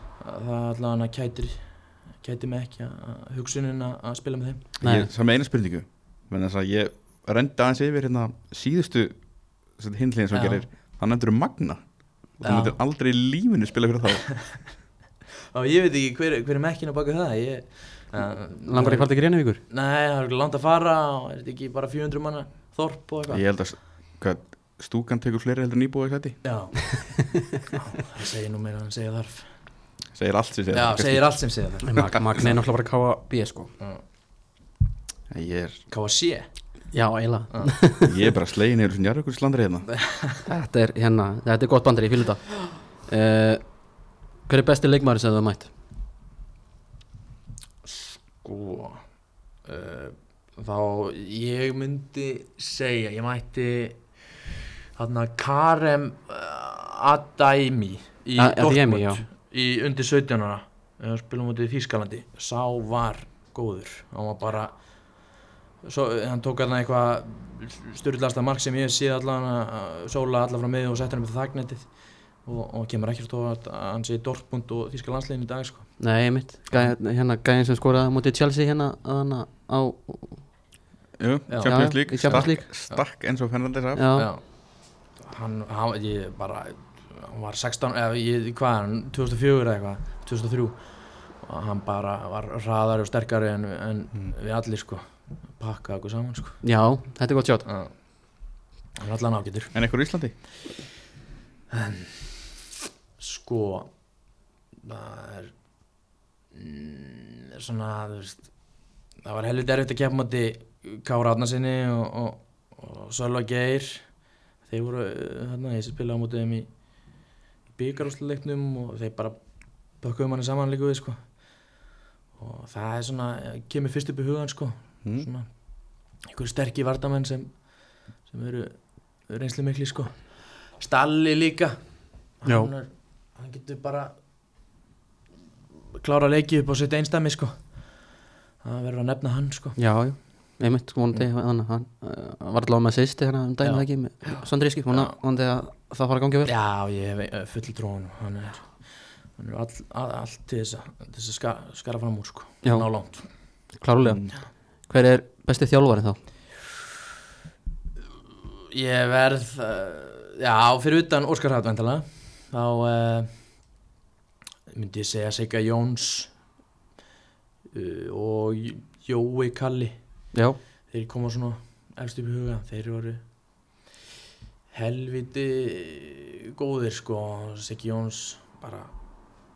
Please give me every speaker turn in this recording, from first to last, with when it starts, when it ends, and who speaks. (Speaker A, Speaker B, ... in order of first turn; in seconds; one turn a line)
Speaker A: 0.2-4.8
Speaker B: 4.8-5.1
Speaker C: 4.8-14.7
Speaker A: 10.3-10.7
Speaker A: 12.4-12.8
Speaker A: 15.5-23.6
Speaker B: 18.6-19.6
Speaker C: 23.3-26.8
Speaker A: 26.4-29.9
Speaker C: 30.1-32.6
Speaker A: 30.7-32.1
Speaker B: 31.8-33.7
Speaker A: 33.8-34.0
Speaker C: 35.3-35.9
Speaker A: 35.9-36.9
Speaker B: 36.9-38.1
Speaker C: 38.0-39.9
Speaker B: 40.5-45.7
Speaker A: 47.8-77.0
Speaker B: 58.4-59.2
Speaker B: 76.0-80.5
Speaker C: 81.2-84.2
Speaker A: 81.5-83.0
Speaker B: 81.6-82.7
Speaker B: 84.0-84.3
Speaker A: 84.2-96.9
Speaker B: 96.6-97.7
Speaker A: 97.7-100.3
Speaker C: 99.7-100.5
Speaker A: 101.7-102.6
Speaker A: 103.2-106.0
Speaker A: 106.5-121.8
Speaker A: 122.3-134.3
Speaker C: 125.0-125.3
Speaker B: 132.4-132.7
Speaker A: 136.0-140.2
Speaker B: 139.8-146.5
Speaker A: 143.6-145.2
Speaker A: 146.5-153.8
Speaker B: 152.6-156.3
Speaker C: 154.0-154.3
Speaker A: 158.7-163.8
Speaker A: 164.7-166.5
Speaker A: 167.7-173.7
Speaker B: 170.3-170.6
Speaker A: 174.7-179.0